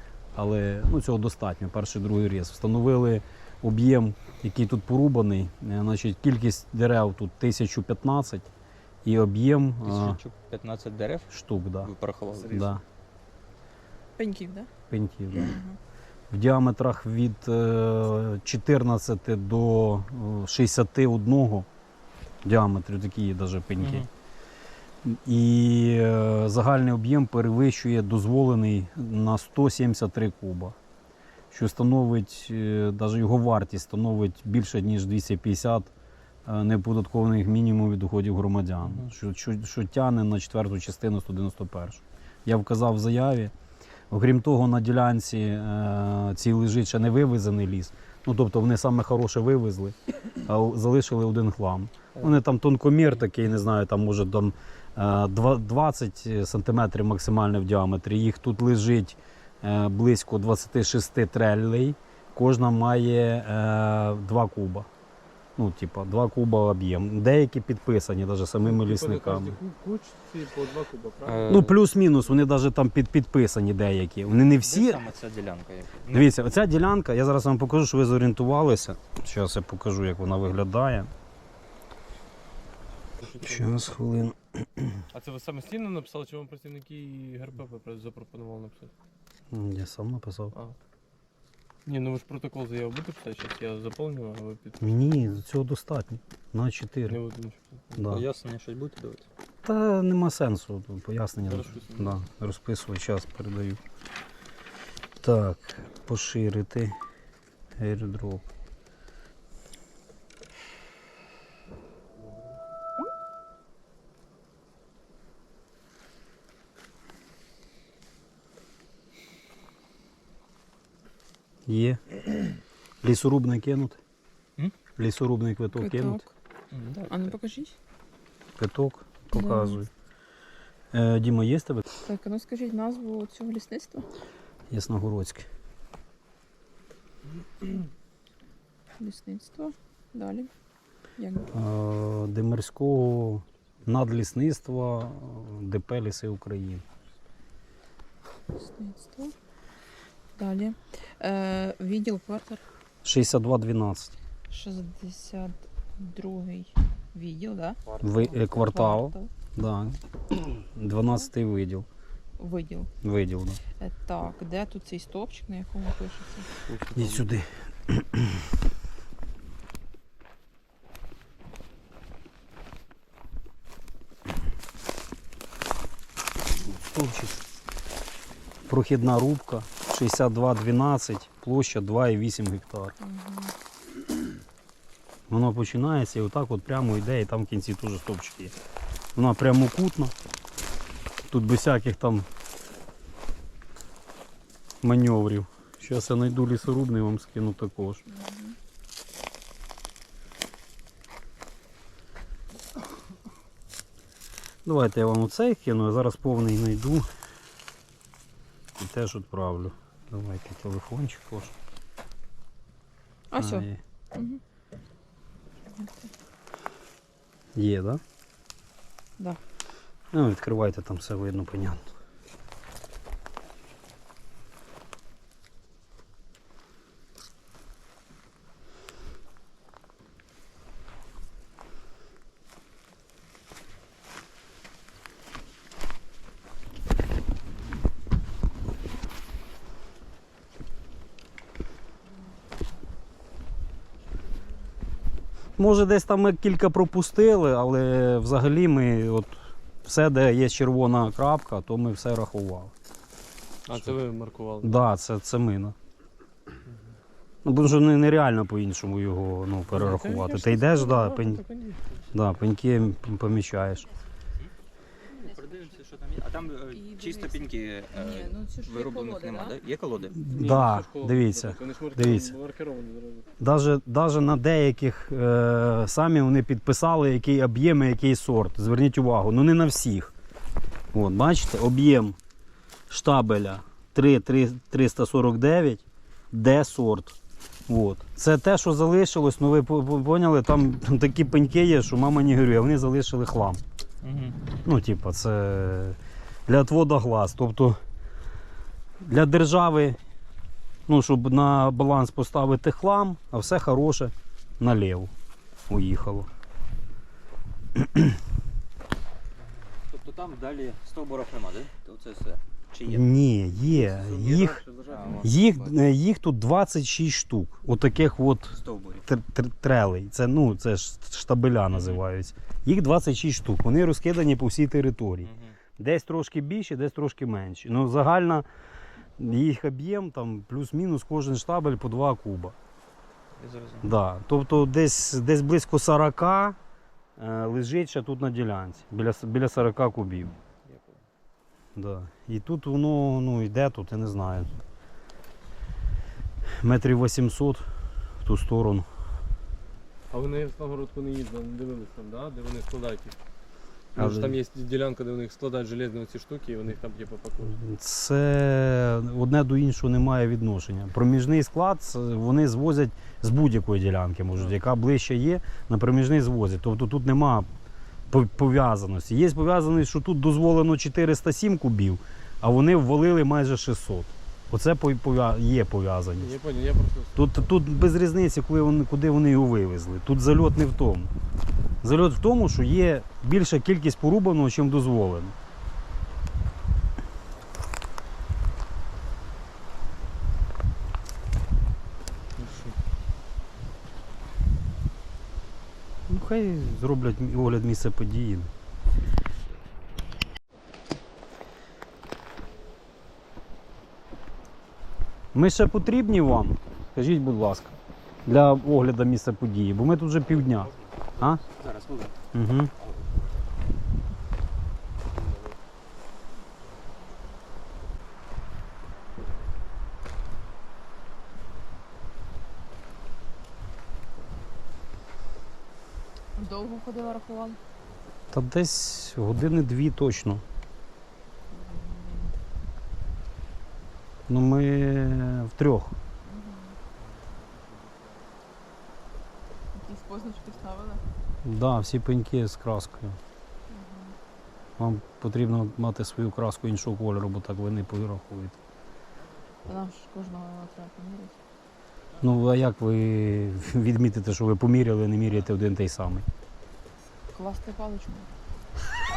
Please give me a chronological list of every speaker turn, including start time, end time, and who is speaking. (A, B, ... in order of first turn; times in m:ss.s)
0:00.4-0:08.5 A
0:09.0-0:10.2 A
0:09.8-0:11.3 B
0:11.3-0:12.8 A
0:11.8-0:12.6 B
0:14.2-0:14.7 C
0:14.9-0:15.6 A
0:15.3-0:15.8 C
0:16.3-0:21.7 A
0:22.4-0:24.1 A
0:23.8-0:24.1 B
0:25.0-0:30.8 A
0:31.5-0:35.9 A
0:36.5-0:43.5 A
0:44.1-1:04.9 A
1:05.6-1:09.6 A
1:08.7-1:11.6 D
1:11.2-1:11.8 B
1:11.5-1:15.1 A
1:14.6-1:16.3 B
1:16.1-1:21.1 A
1:23.2-1:23.5 D
1:23.3-1:25.0 A
1:25.1-1:28.9 D
1:29.5-1:30.5 A
1:31.9-1:35.0 D
1:34.8-1:37.2 A
1:37.1-1:38.1 D
1:38.0-1:38.2 A
1:38.1-1:39.3 B
1:39.6-1:43.8 A
1:41.4-1:42.2 D
1:45.2-1:47.0 A
1:47.8-1:48.4 A
2:01.7-2:02.0 A
2:03.0-2:04.0 A
2:05.0-2:06.2 A
2:05.7-2:06.3 C
2:06.7-2:07.3 B
2:07.1-2:07.8 C
2:08.6-2:09.9 A
2:09.3-2:09.8 C
2:10.9-2:11.8 A
2:12.0-2:14.1 C
2:14.7-2:15.5 A
2:19.0-2:20.5 C
2:21.2-2:21.5 C
2:21.5-2:26.8 A
2:28.6-2:29.3 C
2:30.4-2:32.6 C
2:33.0-2:34.2 A
2:34.5-2:39.3 C
2:38.0-2:41.9 A
2:42.4-2:42.9 C
2:43.0-2:43.6 A
2:43.8-2:46.5 C
2:46.7-2:47.4 B
2:46.9-2:48.4 A
2:56.7-2:57.4 A
2:58.7-3:03.0 A
3:03.0-3:03.5 C
3:05.3-3:08.5 A
3:09.2-3:10.1 A
3:11.3-3:12.3 A
3:14.8-3:18.0 A
3:18.1-3:18.6 C
3:24.6-3:27.0 A
3:28.8-3:31.5 A
3:33.3-3:34.4 C
3:33.4-3:33.8 A
3:35.7-3:36.1 C
3:37.6-3:38.0 A
3:40.1-3:41.9 A
4:05.6-4:12.7 A
4:13.7-4:14.8 D
4:14.6-4:15.8 A
4:17.4-4:21.4 A
4:19.7-4:21.9 D
4:22.1-4:23.9 A
4:25.1-4:30.2 B
4:25.2-4:25.7 C
4:26.7-4:29.6 C
4:30.1-4:32.4 A
4:30.3-4:33.3 D
4:33.4-4:40.1 A
4:40.9-4:42.2 A
4:42.9-4:53.6 A
4:54.0-4:54.4 B
4:54.6-4:57.8 A
4:59.0-5:00.0 A
5:00.9-5:05.1 A
5:05.7-5:06.3 A
5:07.8-5:08.2 A
5:09.9-5:13.1 B
5:12.8-5:14.6 A
5:13.7-5:15.8 B
5:15.2-5:28.4 A
5:18.5-5:19.0 B
5:21.7-5:22.0 B
5:25.2-5:25.6 B
5:29.2-5:32.6 A
5:33.4-5:33.9 B
5:33.8-5:36.6 A
5:37.2-5:40.3 A
5:40.6-5:41.0 B
5:41.8-5:44.5 A
5:46.6-5:47.6 A
5:48.2-5:48.9 A
5:50.1-5:53.2 D
5:54.0-5:57.5 D
5:54.0-5:54.4 A
5:57.5-6:07.5 A
6:08.1-6:16.3 A
6:16.2-6:17.5 D
6:17.2-6:21.1 A
6:21.8-6:25.4 A
6:36.1-6:38.5 A
6:45.3-6:51.4 A
6:51.2-6:52.2 B
6:52.3-6:52.7 A
6:52.8-6:53.1 B
7:06.4-7:07.6 C
7:08.3-7:10.4 A
7:11.5-7:12.4 C
7:14.3-7:16.0 A
7:16.2-7:16.8 C
7:19.7-7:21.0 C
7:21.4-7:23.2 A
7:23.7-7:24.2 C
7:24.8-7:28.6 A
7:29.6-7:31.4 C
7:32.2-7:36.3 A
7:37.3-7:38.3 C